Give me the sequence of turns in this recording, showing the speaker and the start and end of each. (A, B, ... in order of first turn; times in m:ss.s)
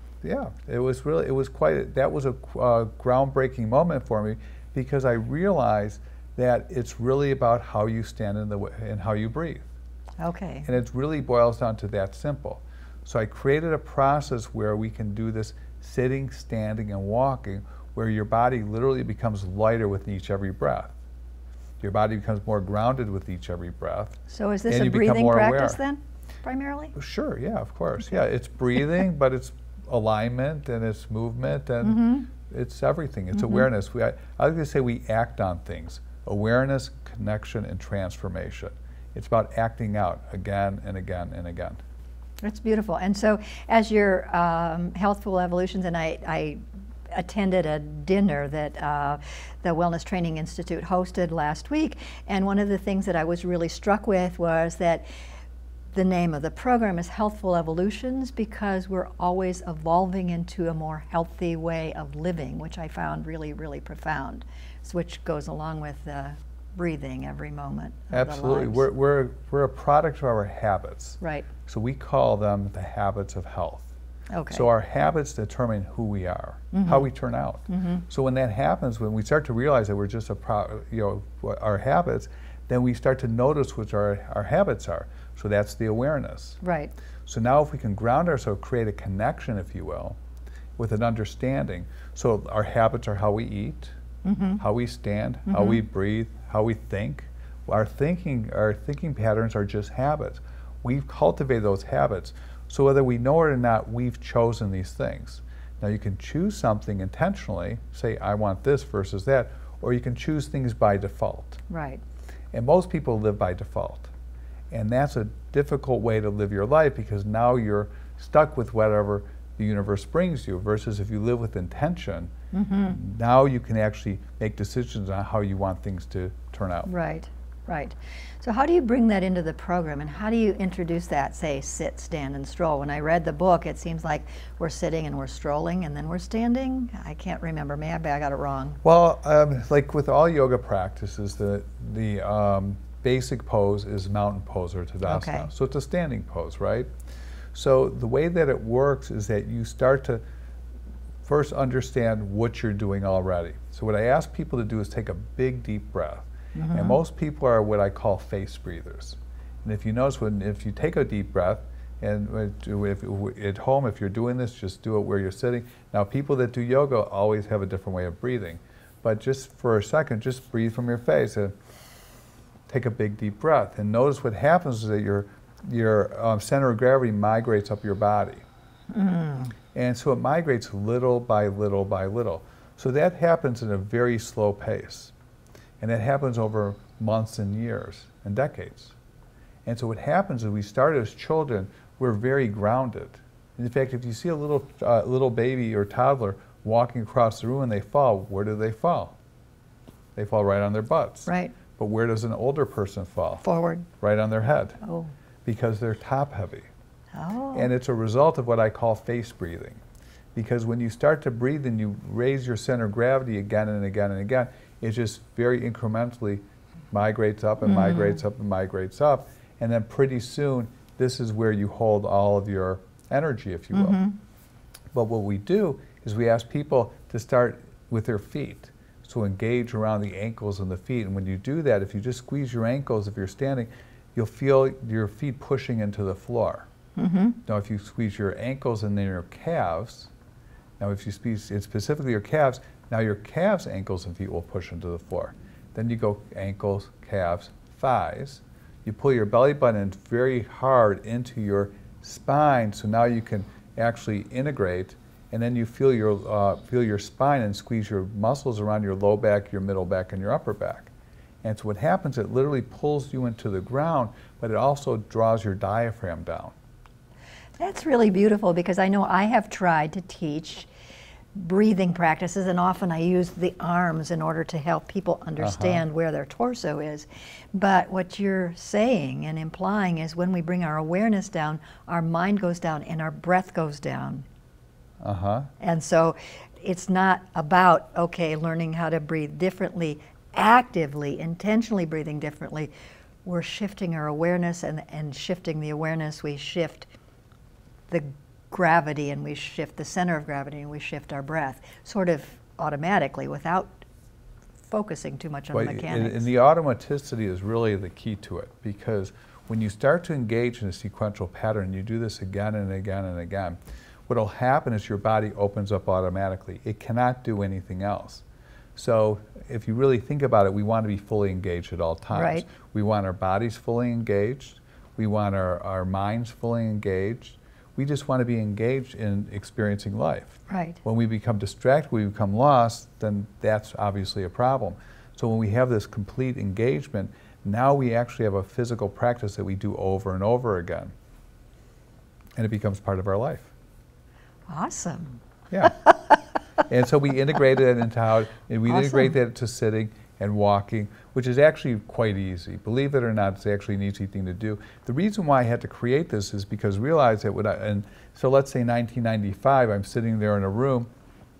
0:00.2-0:09.7 A
0:10.2-0:10.7 B
0:10.6-0:20.9 A
0:21.8-0:25.8 A
0:24.3-0:26.9 B
0:27.0-0:41.8 A
0:31.8-0:32.3 B
0:33.3-0:33.6 B
0:42.4-0:55.0 B
0:55.9-1:08.8 B
1:08.1-1:13.9 A
1:11.2-1:11.5 B
1:14.3-1:14.6 B
1:14.5-1:26.6 A
1:16.7-1:17.1 B
1:17.7-1:18.0 B
1:26.6-1:26.9 B
1:27.2-1:30.2 A
1:30.8-1:34.0 A
1:34.2-1:34.6 B
1:34.6-1:51.6 A
1:35.5-1:35.8 B
1:51.7-1:52.0 B
1:52.5-1:54.1 A
1:54.7-2:02.3 A
2:02.5-2:03.0 B
2:02.8-2:06.9 A
2:06.9-2:18.8 B
2:18.8-2:26.9 A
2:25.0-2:25.5 B
2:27.5-2:30.2 A
2:31.2-2:51.5 A
2:36.6-2:37.0 B
2:52.7-2:58.4 A
2:58.9-2:59.5 B
2:59.7-3:05.1 A
3:05.8-3:09.0 A
3:09.6-3:19.2 A
3:20.2-3:24.8 A
3:21.3-3:21.5 B
3:23.4-3:23.9 B
3:24.8-3:25.1 B
3:25.4-3:26.7 A
3:27.1-3:27.7 B
3:27.5-3:29.8 A
3:30.3-3:44.0 A
3:37.6-3:38.2 B
3:43.7-3:44.2 B
3:44.9-3:56.7 A
3:57.0-3:57.4 B
3:57.4-4:00.1 A
4:00.8-4:20.9 A
4:21.4-4:26.5 A
4:27.6-4:30.7 B
4:31.3-4:44.3 B
4:35.4-4:35.8 A
4:45.0-4:45.5 A
4:45.6-4:52.7 B
4:53.2-4:56.9 B
4:57.9-5:03.8 B
5:04.7-5:06.3 B
5:05.5-5:18.2 A
5:18.8-5:40.9 A
5:22.1-5:22.4 B
5:30.5-5:30.8 B
5:42.4-5:43.5 A
5:44.5-5:45.2 B
5:45.5-5:45.8 A
5:46.7-6:00.9 A
5:48.7-5:49.1 B